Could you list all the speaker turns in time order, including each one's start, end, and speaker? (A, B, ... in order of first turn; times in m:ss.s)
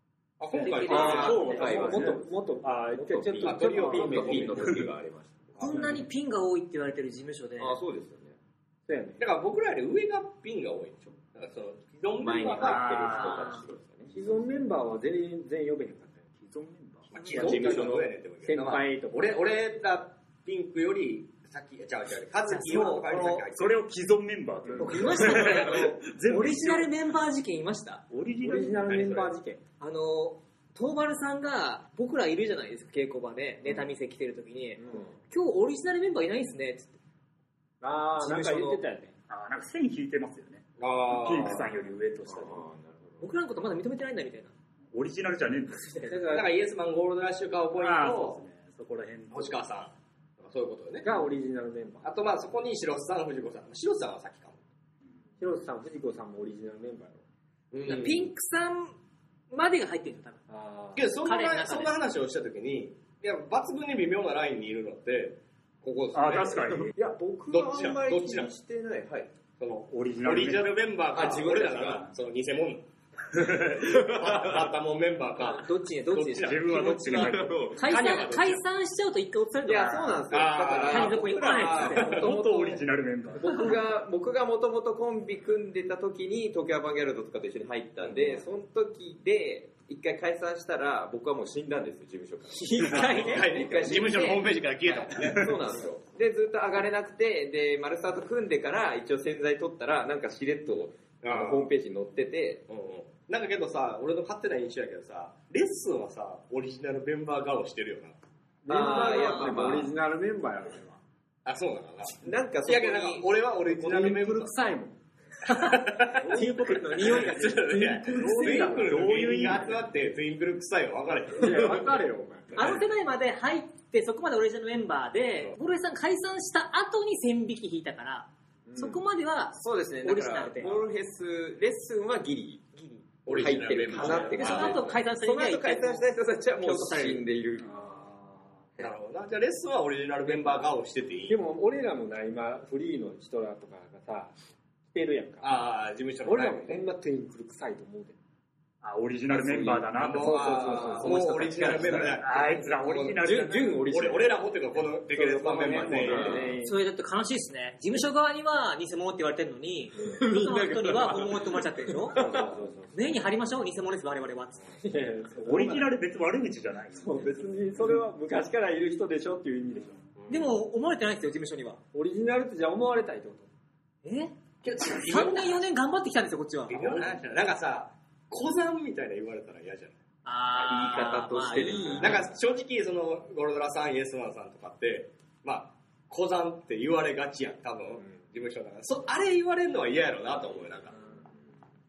0:00.4-0:02.0 A
0:00.5-0:01.9 B
0:00.8-0:05.8 C
0:00.9-0:04.7 D
0:01.9-0:02.1 E
0:03.4-0:04.9 A
0:05.6-0:07.8 B
0:05.7-0:06.0 E
0:07.6-0:08.4 C
0:08.9-0:09.2 D
0:09.2-0:13.2 A
0:12.2-0:14.3 C
0:12.6-0:13.6 E
0:12.9-0:13.6 B
0:14.1-0:16.2 D
0:16.4-0:17.1 E
0:17.1-0:23.8 A
0:17.1-0:17.7 B
0:17.3-0:18.1 C
0:18.4-0:19.2 D
0:22.4-0:23.5 B
0:23.5-0:26.9 E
0:24.8-0:28.0 B
0:28.1-0:28.9 E
0:28.4-0:29.6 D
0:28.9-0:29.3 A
0:29.8-0:37.0 B
0:34.8-0:35.1 D
0:37.8-0:39.1 D
0:38.2-0:38.8 B
0:39.3-0:42.6 E
0:40.8-0:41.7 A
0:42.2-0:43.3 C
0:43.2-0:44.5 B
0:44.9-0:45.9 E
0:45.7-0:46.2 B
0:46.1-0:46.5 D
0:46.3-0:48.4 A
0:47.8-0:49.6 E
0:49.3-0:51.0 A
0:51.0-0:52.1 D
0:52.0-0:54.6 A
0:55.4-0:57.2 D
0:57.7-0:58.3 A
0:57.8-0:59.0 B
0:59.5-1:00.4 B
1:00.5-1:01.0 D
1:00.9-1:06.8 A
1:01.2-1:01.9 B
1:06.1-1:06.9 E
1:06.9-1:09.3 C
1:07.5-1:08.5 A
1:09.6-1:18.6 A
1:09.9-1:10.8 E
1:11.1-1:12.0 C
1:11.8-1:12.1 E
1:13.3-1:14.0 E
1:13.9-1:14.4 C
1:15.4-1:16.8 B
1:16.4-1:17.8 E
1:17.1-1:17.9 C
1:17.7-1:20.3 B
1:19.6-1:22.8 C
1:20.3-1:22.4 A
1:20.8-1:22.3 B
1:21.4-1:23.6 E
1:23.3-1:42.6 C
1:32.5-1:34.4 B
1:32.9-1:35.6 A
1:41.2-1:41.7 A
1:42.7-1:48.2 A
1:48.6-1:51.0 D
1:48.7-1:49.9 C
1:51.4-1:54.5 A
1:52.2-1:53.3 C
1:53.6-1:55.0 D
1:55.4-1:58.8 B
1:55.5-2:02.0 A
1:57.0-1:57.2 D
1:58.1-1:59.8 E
1:58.1-1:58.9 D
2:01.4-2:02.6 D
2:02.5-2:02.8 A
2:02.5-2:10.9 B
2:08.7-2:09.0 D
2:09.6-2:12.6 C
2:12.7-2:13.0 B
2:13.2-2:15.0 A
2:13.3-2:17.8 C
2:14.0-2:17.2 B
2:17.6-2:18.1 E
2:18.8-2:21.4 A
2:21.3-2:24.3 D
2:24.9-2:25.5 D
2:25.4-2:26.8 A
2:26.2-2:28.2 D
2:28.8-2:30.7 E
2:29.3-2:29.9 C
2:29.9-2:33.2 A
2:30.2-2:32.0 D
2:30.7-2:32.6 C
2:32.0-2:33.8 E
2:33.2-2:34.4 C
2:33.9-2:36.5 A
2:35.2-2:36.6 C
2:35.2-2:36.8 D
2:36.6-2:42.2 B
2:40.0-2:42.7 C
2:42.1-2:43.1 D
2:42.9-2:44.7 B
2:44.8-2:45.9 D
2:45.4-2:47.4 E
2:46.9-2:50.0 D
2:50.2-2:50.5 A
2:50.3-2:51.8 B
2:51.9-2:53.5 D
2:54.0-2:54.3 B
2:54.6-2:55.6 A
2:54.8-2:57.0 B
2:56.7-3:00.0 A
3:00.2-3:02.2 B
3:00.6-3:01.0 A
3:00.6-3:02.3 C
3:02.0-3:11.0 A